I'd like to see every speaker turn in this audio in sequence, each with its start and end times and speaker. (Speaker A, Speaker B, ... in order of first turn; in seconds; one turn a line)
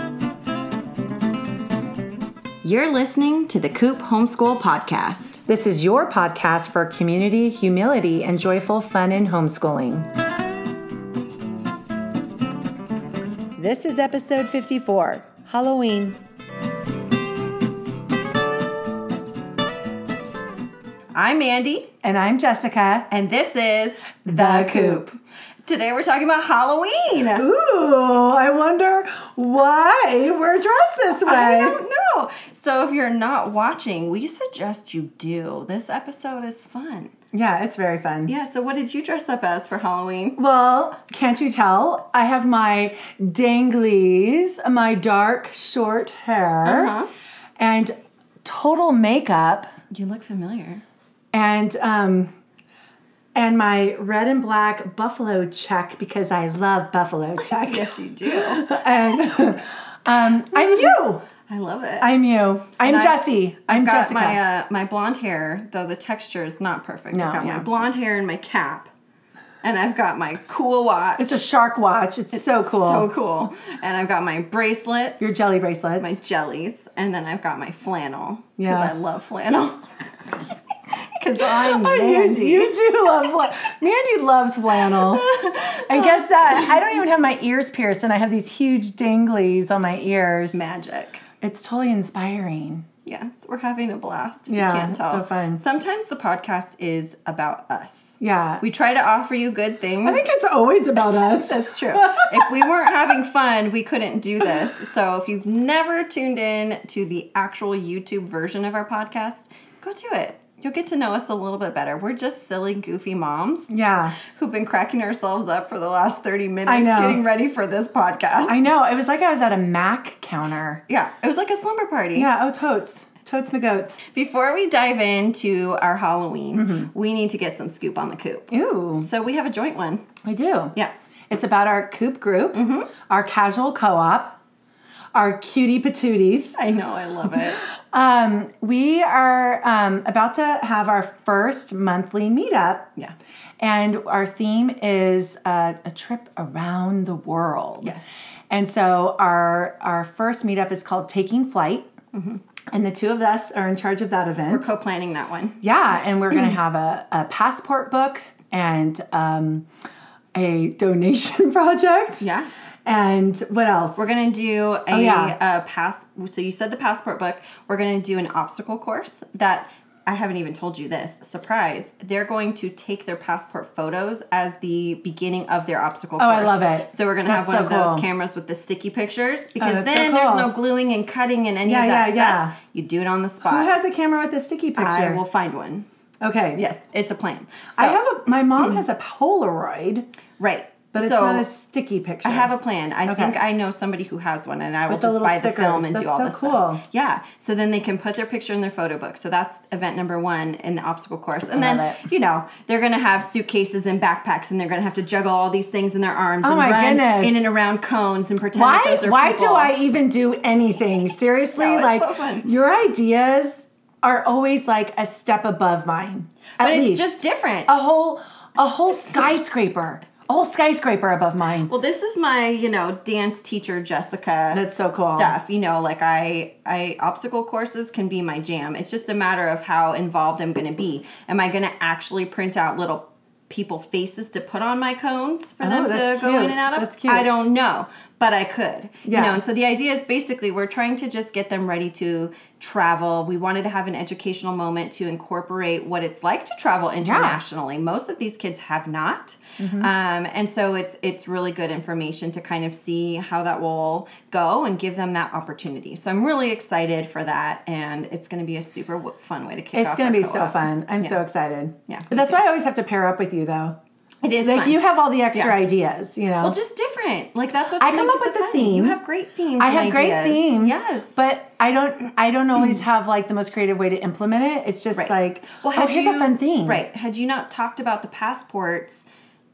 Speaker A: 2.6-5.4
Speaker B: 5.5-10.1
Speaker B: 13.6-16.2
Speaker A: 21.1-21.9
Speaker B: 22.0-23.1
Speaker A: 23.1-27.5
Speaker B: 24.3-25.1
Speaker B: 27.4-31.8
Speaker A: 31.2-37.1
Speaker B: 37.3-38.3
Speaker A: 38.3-40.4
Speaker B: 40.4-46.9
Speaker A: 46.6-47.1
Speaker B: 47.6-47.9
Speaker B: 48.4-49.7
Speaker A: 49.9-50.8
Speaker B: 51.3-52.3
Speaker B: 53.4-61.3
Speaker A: 57.6-58.7
Speaker A: 60.5-62.1
Speaker B: 62.0-64.4
Speaker A: 62.8-68.9
Speaker B: 67.1-67.7
Speaker A: 69.6-71.4
Speaker B: 71.2-73.1
Speaker A: 72.3-75.2
Speaker B: 75.2-76.2
Speaker A: 76.0-80.4
Speaker B: 78.6-78.9
Speaker A: 81.2-82.8
Speaker B: 81.4-90.6
Speaker A: 84.7-87.0
Speaker A: 90.5-91.2
Speaker B: 91.4-92.8
Speaker A: 93.0-100.3
Speaker B: 94.5-95.6
Speaker B: 98.2-98.6
Speaker B: 100.0-102.7
Speaker A: 101.2-118.7
Speaker B: 113.7-114.2
Speaker B: 116.7-117.2
Speaker B: 118.5-120.8
Speaker A: 120.9-122.3
Speaker B: 122.2-124.0
Speaker A: 124.1-128.5
Speaker B: 126.5-126.9
Speaker B: 128.5-129.1
Speaker A: 129.0-130.0
Speaker B: 130.2-130.7
Speaker B: 131.3-134.4
Speaker A: 132.5-132.9
Speaker B: 135.1-136.6
Speaker A: 136.6-137.6
Speaker B: 137.2-142.9
Speaker B: 143.6-147.9
Speaker A: 147.8-148.1
Speaker B: 148.5-151.9
Speaker A: 152.1-152.4
Speaker B: 152.7-154.7
Speaker A: 154.5-155.6
Speaker B: 155.6-159.7
Speaker B: 160.3-162.3
Speaker A: 162.2-162.5
Speaker B: 162.9-164.1
Speaker A: 164.0-183.7
Speaker B: 164.9-165.3
Speaker B: 176.2-178.1
Speaker B: 179.6-180.5
Speaker B: 181.7-182.6
Speaker B: 183.4-185.2
Speaker A: 184.8-185.9
Speaker B: 186.2-186.6
Speaker A: 186.6-188.0
Speaker B: 187.8-190.1
Speaker A: 188.6-188.8
Speaker A: 190.4-191.5
Speaker B: 190.9-192.5
Speaker A: 192.2-209.7
Speaker B: 193.1-193.4
Speaker B: 194.9-196.8
Speaker B: 201.6-202.0
Speaker B: 206.4-207.5
Speaker B: 208.5-221.7
Speaker A: 211.6-212.5
Speaker A: 216.6-217.7
Speaker A: 221.7-261.2
Speaker B: 224.5-225.3
Speaker B: 235.6-237.3
Speaker B: 239.1-239.4
Speaker B: 247.0-247.4
Speaker B: 249.6-249.9
Speaker B: 259.7-263.8
Speaker A: 261.9-262.4
Speaker A: 264.2-264.8
Speaker B: 264.4-266.6
Speaker A: 266.4-271.2
Speaker B: 267.8-269.0
Speaker B: 269.6-276.8
Speaker A: 274.9-279.1